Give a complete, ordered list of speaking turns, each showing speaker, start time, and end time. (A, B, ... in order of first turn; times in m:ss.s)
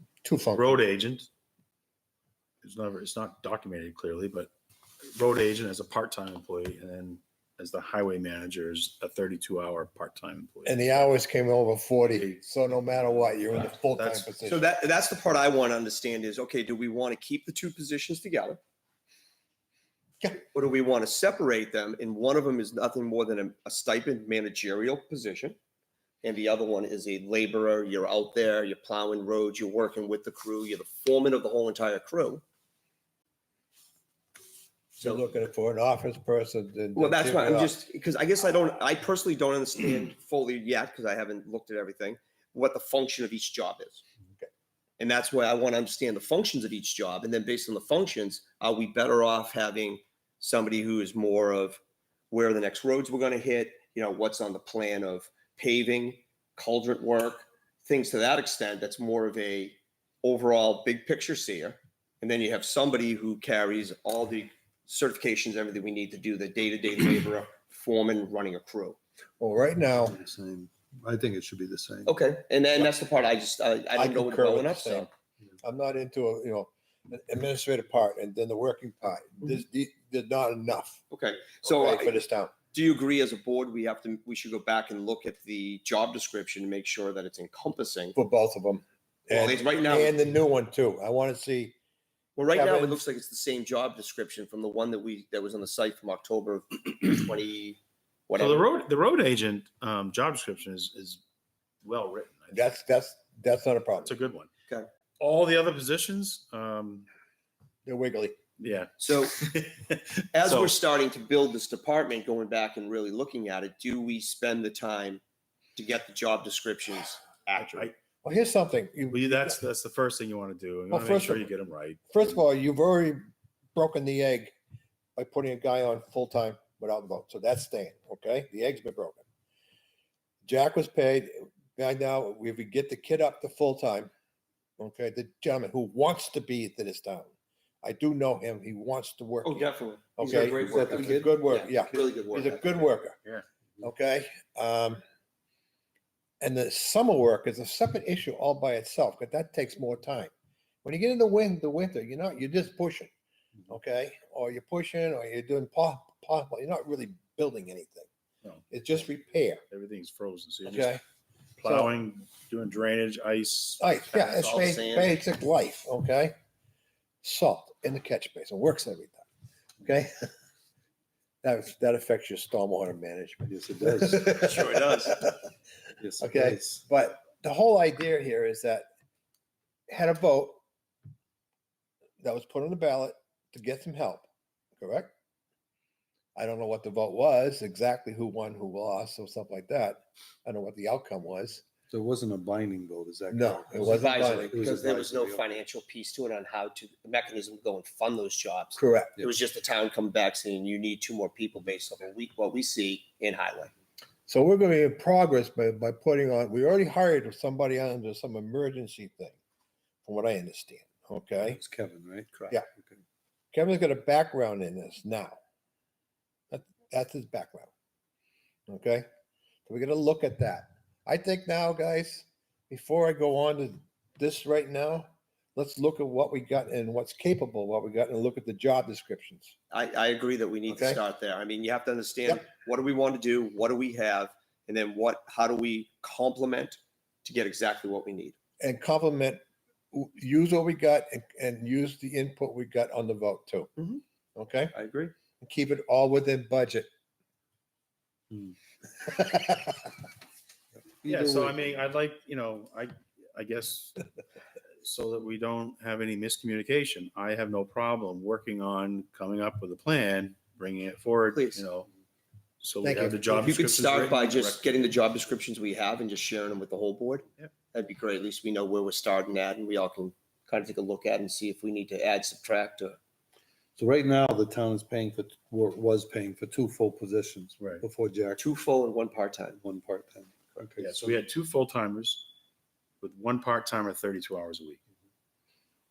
0:00.2-0:00.8 A
0:00.5-0:01.3 B
0:02.6-0:04.5 B
0:05.1-0:11.1 B
0:10.6-0:14.6 A
0:12.1-0:14.3 B
0:14.4-0:18.6 C
0:20.4-0:25.6 C
0:26.2-0:32.4 C
0:35.0-0:37.8 A
0:35.0-0:35.3 C
0:37.0-0:44.0 C
0:45.0-0:51.8 C
0:52.3-1:09.0 C
1:09.4-1:10.2 A
1:10.0-1:12.1 D
1:12.0-1:15.1 C
1:14.0-1:15.1 A
1:15.6-1:21.0 A
1:21.1-1:22.2 C
1:21.6-1:22.5 A
1:22.7-1:28.2 C
1:28.1-1:31.7 A
1:29.3-1:30.1 C
1:32.4-1:38.7 C
1:32.5-1:33.0 A
1:38.4-1:41.2 B
1:41.8-1:42.8 B
1:42.5-1:44.1 A
1:44.0-1:44.5 B
1:45.2-1:47.1 B
1:47.8-1:48.4 A
1:48.6-1:50.7 B
1:49.0-1:49.4 C
1:50.3-1:55.2 C
1:55.8-1:57.9 C
1:57.6-1:57.9 B
1:58.2-1:59.6 A
1:59.1-2:02.4 B
2:00.9-2:01.5 A
2:02.1-2:04.5 A
2:05.2-2:09.2 A
2:10.4-2:14.1 A
2:14.8-2:17.3 A
2:17.8-2:23.2 A
2:19.4-2:22.8 C
2:20.2-2:21.7 D
2:23.8-2:25.0 A
2:26.4-2:30.3 A
2:30.8-2:33.1 A
2:33.7-2:38.1 A
2:38.4-2:39.0 B
2:38.7-2:39.6 A
2:39.7-2:41.0 B
2:40.6-2:41.0 A
2:41.6-2:44.5 B
2:41.6-2:41.9 A
2:43.8-2:46.3 A
2:44.1-2:45.2 C
2:47.2-2:49.2 A
2:49.8-2:50.3 A
2:51.4-2:55.4 A
2:53.5-2:54.5 D
2:54.3-2:55.2 C
2:56.0-2:56.8 D
2:56.2-2:58.8 A
2:59.9-3:00.6 A
3:02.2-3:05.1 A
3:06.3-3:11.6 A
3:11.9-3:15.4 D
3:13.3-3:14.5 A
3:13.7-3:23.7 C
3:18.8-3:19.2 A
3:24.3-3:29.4 A
3:30.0-3:31.6 A
3:31.4-3:33.0 D
3:33.5-3:35.4 A
3:36.5-3:37.7 A
3:38.7-3:39.0 A
3:39.7-3:49.5 A
3:49.7-3:58.4 C
3:50.7-3:51.0 A
3:58.6-3:59.4 A
3:59.9-4:03.7 A
4:04.4-4:04.7 A
4:04.7-4:05.1 C
4:05.4-4:06.9 A
4:09.0-4:09.8 A
4:11.0-4:11.6 D
4:11.0-4:14.0 B
4:14.8-4:21.9 B
4:21.3-4:21.6 C
4:22.6-4:24.9 B
4:22.8-4:23.2 A
4:23.3-4:33.0 C
4:33.8-4:38.5 D
4:37.6-4:37.8 B
4:38.4-4:39.6 C
4:39.6-4:41.2 D
4:40.8-4:42.3 B
4:43.0-4:44.8 B